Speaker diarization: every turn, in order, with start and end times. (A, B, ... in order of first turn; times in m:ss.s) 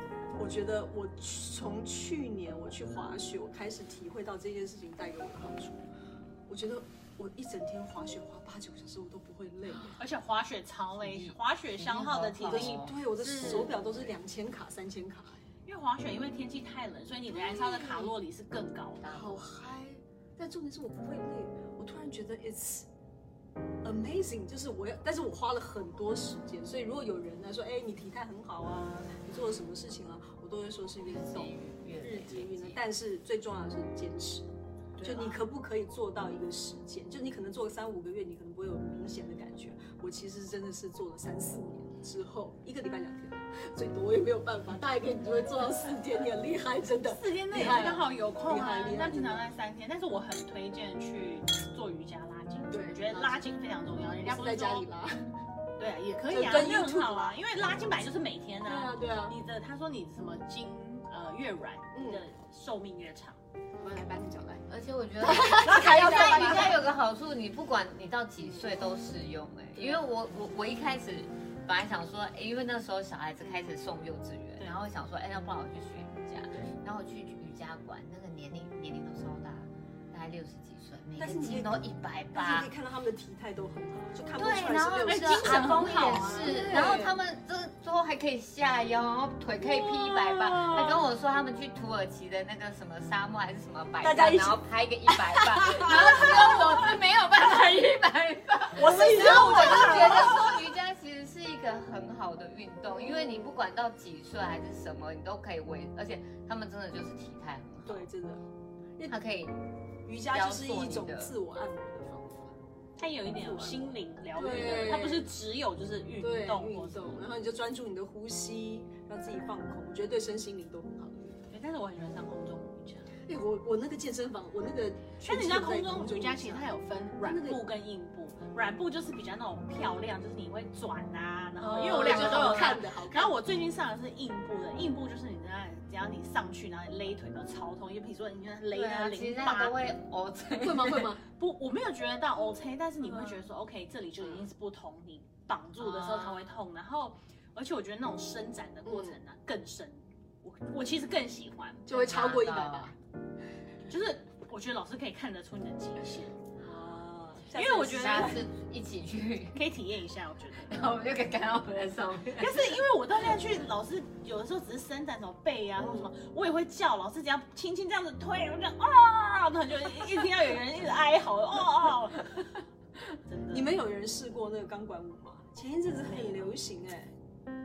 0:00.4-0:05.8 A
0:06.5-0:10.0 A
0:10.0-0:13.8 B
0:11.0-0:13.0 C
0:12.5-0:15.4 A
0:15.6-0:19.2 B
0:17.3-0:18.1 A
0:19.0-0:22.9 A
0:19.1-0:19.4 C
0:23.8-0:34.5 A
0:31.0-0:32.8 C
0:35.0-0:35.4 B
0:35.0-0:49.5 A
0:47.0-0:54.9 B
0:52.7-0:53.5 A
0:54.2-0:55.3 A
0:55.8-1:03.4 B
0:56.3-0:57.4 A
0:58.6-0:59.4 A
1:01.9-1:02.2 A
1:03.8-1:04.6 A
1:04.7-1:22.7 C
1:05.2-1:06.8 A
1:05.5-1:06.8 B
1:09.7-1:10.0 A
1:21.2-1:27.2 A
1:24.4-1:48.1 C
1:25.0-1:26.8 B
1:30.0-1:30.9 A
1:34.0-1:36.9 A
1:38.7-1:40.6 A
1:38.8-1:40.6 B
1:43.0-1:43.6 A
1:47.8-1:48.4 A
1:49.1-1:49.6 C
1:50.0-1:52.5 A
1:50.3-1:51.3 C
1:53.0-1:57.2 B
1:53.3-1:55.3 A
1:56.2-2:01.4 A
2:01.5-2:03.1 B
2:03.2-2:07.6 A
2:05.2-2:19.8 B
2:11.6-2:13.4 A
2:12.0-2:12.8 C
2:18.7-2:21.2 C
2:20.6-2:21.2 A
2:21.4-2:31.9 B
2:23.0-2:23.4 A
2:25.8-2:26.5 C
2:28.8-2:29.2 A
2:31.8-2:32.9 A
2:31.9-2:32.9 C
2:33.8-2:36.4 B
2:36.6-2:38.4 A
2:37.5-2:38.4 B
2:37.7-2:39.7 C
2:39.5-2:40.8 B
2:40.6-2:42.8 C
2:42.3-2:52.4 B
2:53.3-2:53.8 B
2:53.5-2:57.1 A
2:56.0-2:56.6 B